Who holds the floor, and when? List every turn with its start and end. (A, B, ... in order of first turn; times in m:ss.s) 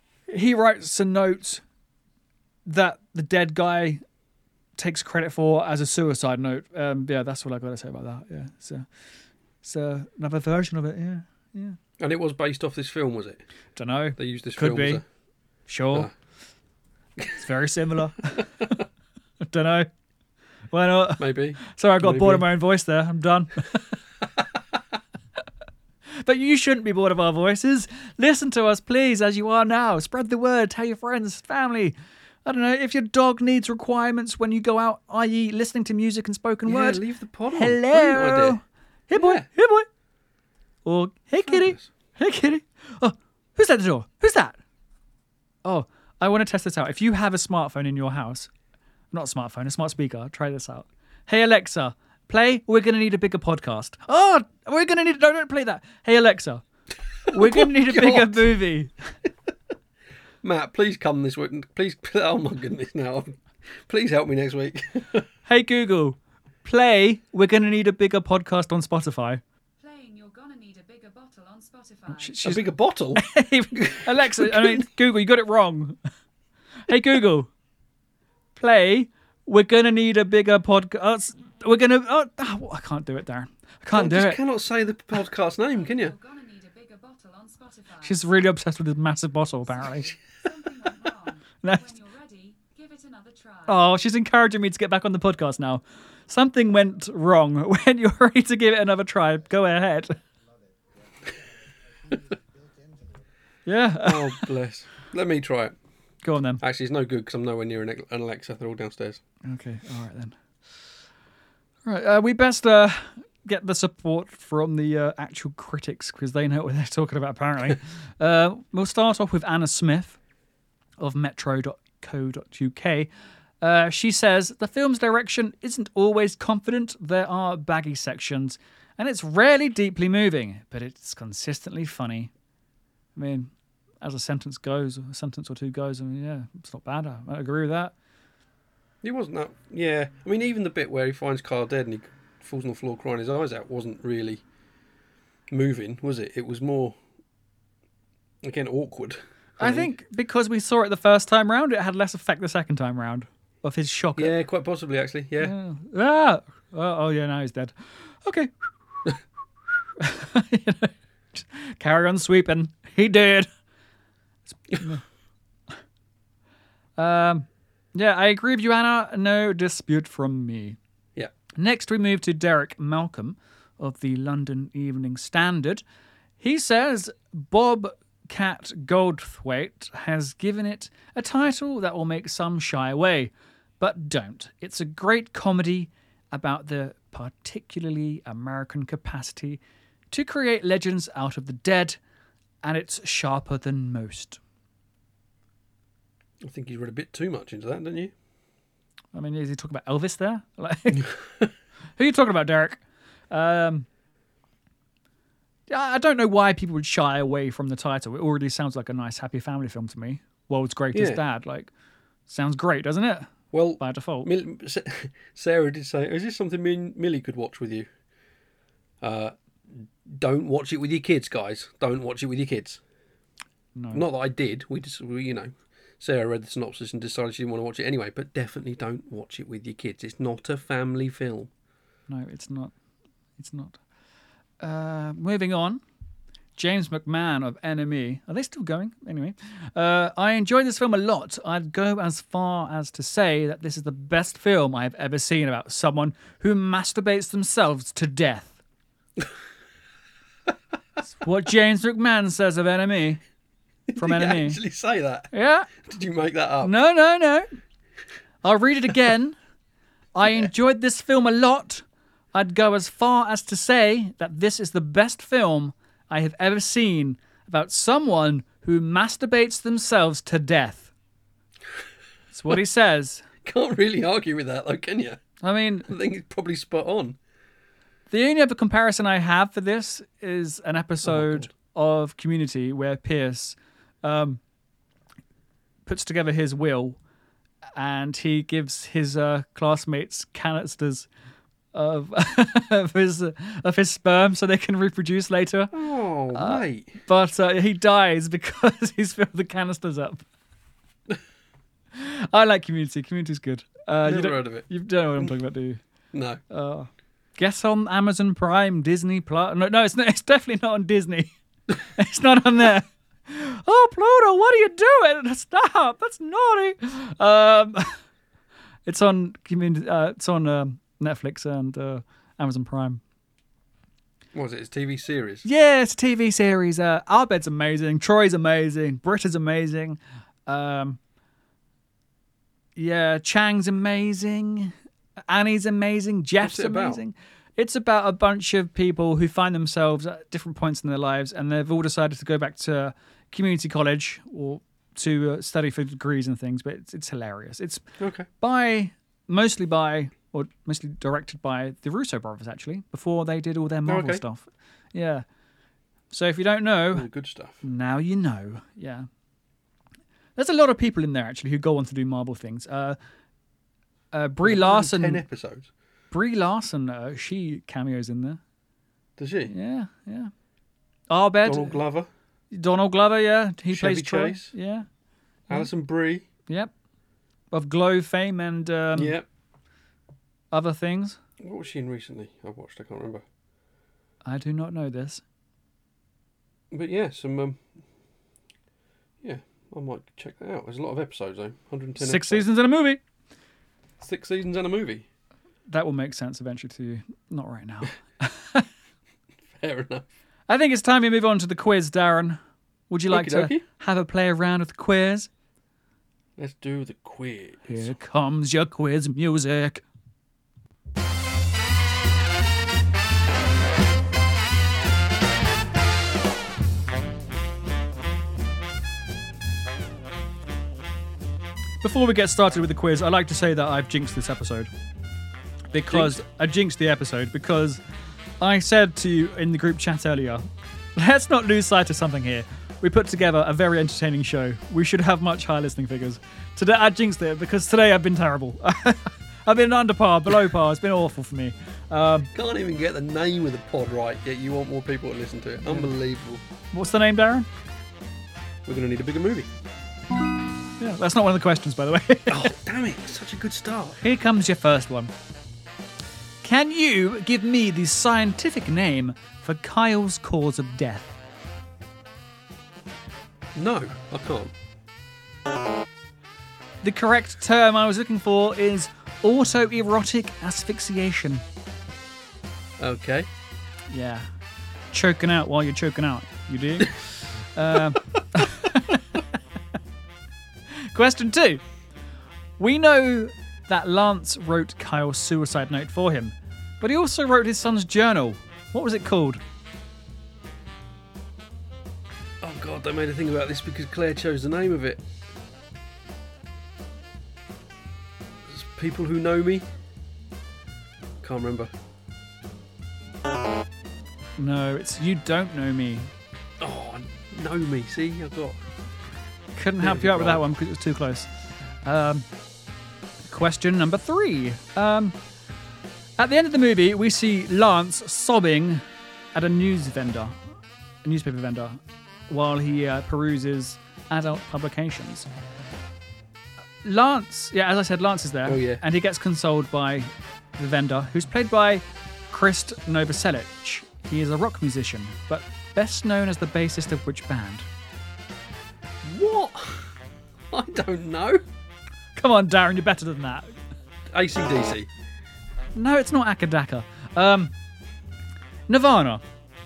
0:00.3-0:01.6 A
0:02.6-0:04.0 A
0:04.8-0:08.9 A
0:09.6-0:11.8 A
0:12.0-0:13.5 B
0:13.8-0:15.0 A
0:14.2-0:15.0 B
0:15.7-0:16.1 A
0:17.3-0:18.7 A
0:19.4-0:19.9 A
0:20.7-0:23.7 A
0:21.2-0:22.5 B
0:26.2-0:39.9 A
0:36.6-0:38.6 B
0:39.1-0:39.5 B
0:40.8-0:44.6 A
0:41.4-0:41.8 B
0:45.6-0:48.5 A
0:49.1-0:56.6 A
0:57.3-0:58.9 A
0:57.3-0:58.5 B
1:00.4-1:05.3 B
1:05.5-1:09.4 A
1:09.8-1:12.4 C
1:12.1-1:12.6 A
1:12.4-1:14.9 B
1:13.2-1:16.0 A
1:16.9-1:17.5 A
1:18.6-1:24.4 A
1:23.9-1:26.2 B
1:25.7-1:28.2 C
1:28.0-1:30.1 A
1:30.4-1:33.8 C
1:31.6-1:31.9 A
1:33.7-1:40.2 A
1:43.6-1:44.5 A
1:44.0-1:45.8 B
1:46.2-1:46.6 A
1:46.6-1:49.2 B
1:49.5-1:50.9 A
1:51.9-2:00.2 A
2:01.0-2:03.1 A
2:03.6-2:12.3 A
2:13.2-2:17.9 A
2:19.0-2:24.4 B
2:25.5-2:27.0 B
2:28.4-2:29.9 B
2:29.6-2:34.3 A
2:34.2-2:35.6 B
2:35.4-2:38.5 A
2:40.0-2:43.5 A
2:44.7-2:45.0 A
2:47.0-2:50.8 A
2:51.6-2:55.8 A
2:56.4-3:09.6 A
3:10.1-3:12.0 A
3:12.6-3:14.4 A
3:16.4-3:18.1 B
3:19.1-3:21.1 A
3:21.0-3:21.5 B
3:22.0-3:23.9 A
3:25.7-3:31.7 A
3:30.9-3:31.2 B
3:32.3-3:34.3 A
3:33.5-3:37.9 B
3:39.0-3:42.8 B
3:43.8-3:44.0 A
3:43.9-3:51.5 B
3:52.1-3:52.7 A
3:53.4-3:53.8 A
3:54.6-3:55.8 A
3:56.6-4:08.6 A
4:11.2-4:13.2 A
4:13.9-4:16.7 B
4:14.0-4:14.6 A
4:15.3-4:15.7 A
4:16.6-4:17.5 A
4:18.4-4:19.4 A
4:20.1-4:30.9 A
4:32.3-4:33.2 A
4:33.4-4:35.2 B
4:35.4-4:35.9 A
4:35.9-4:37.2 B
4:38.1-4:44.4 A
4:41.0-4:41.5 B
4:45.9-4:47.0 A
4:47.8-4:51.1 A
4:51.7-4:55.7 A
4:55.7-4:57.0 B
4:56.3-5:00.2 A
5:02.0-5:05.8 A
5:04.0-5:05.3 B
5:06.1-5:06.4 B
5:06.5-5:18.0 A
5:18.9-5:23.0 A
5:24.3-5:25.4 B
5:25.4-5:31.0 A
5:32.8-5:34.7 A
5:35.3-5:55.2 A
5:36.4-5:37.0 B
5:48.0-5:48.3 B
5:53.9-5:54.2 B
5:56.1-5:57.1 A
5:56.9-5:57.6 B
5:57.6-5:59.1 A
6:00.4-6:03.0 A
6:04.1-6:05.2 A
6:04.4-6:05.7 B
6:06.1-6:08.4 A
6:09.2-6:09.5 B
6:09.5-6:10.3 A
6:11.1-6:11.8 A
6:11.4-6:12.1 B
6:12.5-6:14.9 A
6:13.7-6:14.5 B
6:15.5-6:16.3 B
6:16.5-6:16.7 A
6:17.5-6:19.2 A
6:19.0-6:19.2 B
6:20.5-6:21.2 A
6:21.4-6:23.2 B
6:24.2-6:25.2 A
6:26.7-6:27.7 B
6:29.2-6:32.5 B
6:32.0-6:33.0 A
6:34.0-6:35.1 B
6:35.7-6:38.7 A
6:39.6-6:40.0 B
6:40.5-6:45.3 A
6:43.1-6:43.6 B
6:46.4-6:47.9 B
6:47.7-6:49.8 A
7:01.8-7:04.7 A
7:05.7-7:07.8 A
7:05.9-7:06.2 B
7:08.4-7:22.3 A
7:22.3-7:26.4 B
7:25.6-7:25.9 A
7:26.7-7:27.5 A
7:28.7-7:29.5 B
7:30.8-7:32.5 A
7:32.3-7:34.0 B
7:34.0-7:35.1 A
7:36.4-7:41.1 A
7:43.6-7:44.5 B
7:46.8-7:51.4 A
7:52.8-7:53.3 B
7:53.9-7:54.3 A
7:54.9-7:59.0 A
8:00.9-8:01.6 A
8:02.6-8:09.4 A
8:12.4-8:15.0 B
8:18.5-8:19.7 B
8:21.2-8:21.7 B
8:24.4-8:26.1 A
8:26.6-8:28.6 B
8:29.6-8:31.3 A
8:29.8-8:30.4 B
8:31.8-8:32.3 A
8:33.2-8:35.2 A
8:36.2-8:40.4 A
8:41.0-8:45.3 A
8:46.8-8:57.7 A
8:48.4-8:48.8 B
8:59.0-8:59.9 B
9:00.5-9:01.4 B
9:02.2-9:03.5 A
9:04.1-9:04.9 B
9:05.7-9:07.5 A
9:08.7-9:09.2 A